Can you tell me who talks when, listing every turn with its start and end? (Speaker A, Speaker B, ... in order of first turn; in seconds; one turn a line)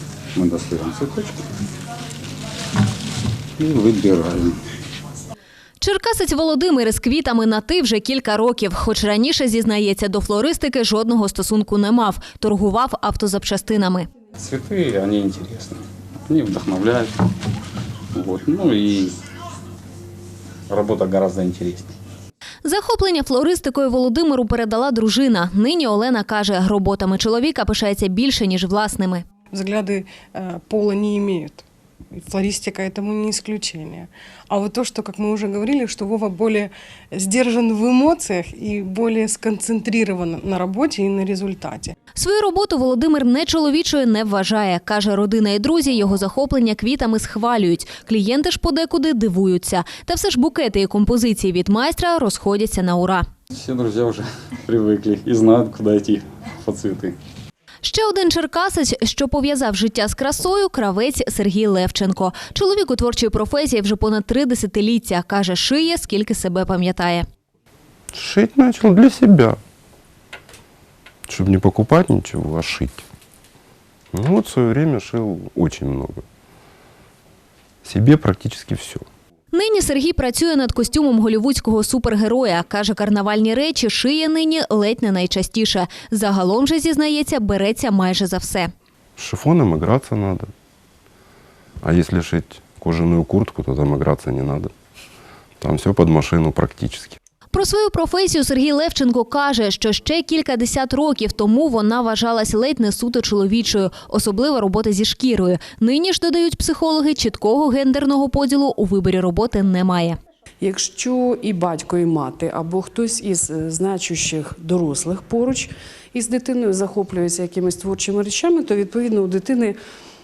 Speaker A: 0.3-1.4
Speaker A: 3.6-4.6
Speaker B: 5.8-14.1
Speaker A: 14.4-17.1
Speaker A: 18.1-19.2
Speaker A: 20.7-21.9
Speaker B: 22.6-29.2
Speaker C: 29.5-42.0
Speaker B: 42.1-53.3
Speaker A: 53.5-57.2
Speaker B: 57.8-67.3
Speaker D: 68.1-69.6
Speaker D: 71.3-73.0
Speaker D: 74.1-76.2
Speaker D: 77.8-79.0
Speaker B: 79.5-88.7
Speaker D: 89.2-90.5
Speaker D: 91.8-94.7
Speaker D: 95.6-97.2
Speaker B: 97.5-110.2
Speaker E: 110.6-119.8